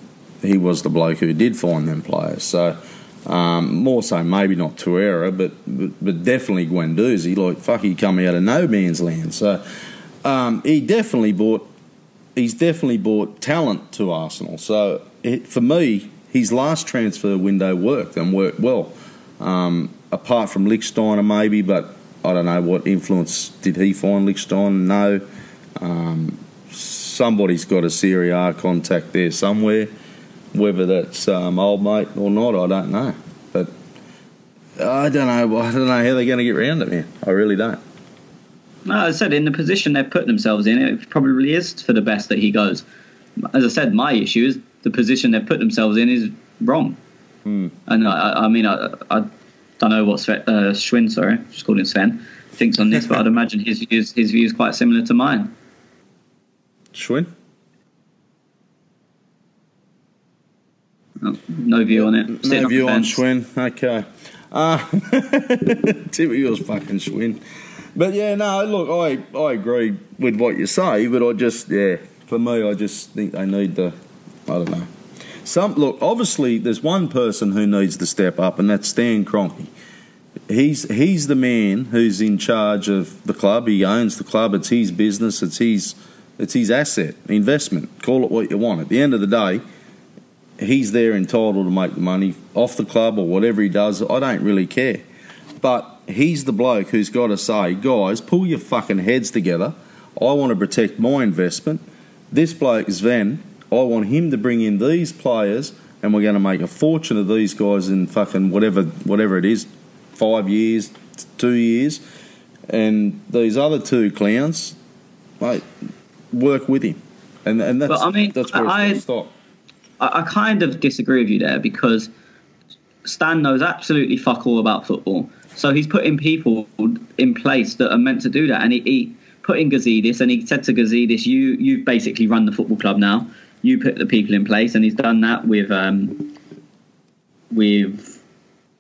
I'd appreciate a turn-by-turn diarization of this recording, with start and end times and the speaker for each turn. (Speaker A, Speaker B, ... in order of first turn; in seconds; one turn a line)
Speaker A: 0.4-9.6
Speaker A: 10.2-11.7
Speaker A: 12.4-25.2
Speaker A: 25.8-29.9
Speaker A: 30.5-33.7
Speaker A: 34.8-37.8
Speaker B: 38.9-42.8
Speaker B: 43.5-47.0
Speaker A: 47.5-47.7
Speaker B: 47.9-55.5
Speaker A: 56.9-57.3
Speaker B: 61.2-63.2
Speaker A: 61.9-67.4
Speaker A: 68.0-74.0
Speaker A: 74.5-74.9
Speaker A: 75.4-79.7
Speaker A: 80.5-89.6
Speaker A: 90.6-95.0
Speaker A: 95.6-112.0
Speaker A: 112.7-114.8
Speaker A: 115.4-115.7
Speaker A: 116.3-119.3
Speaker B: 117.9-119.0
Speaker B: 120.0-122.1
Speaker B: 123.0-136.3
Speaker B: 137.5-138.2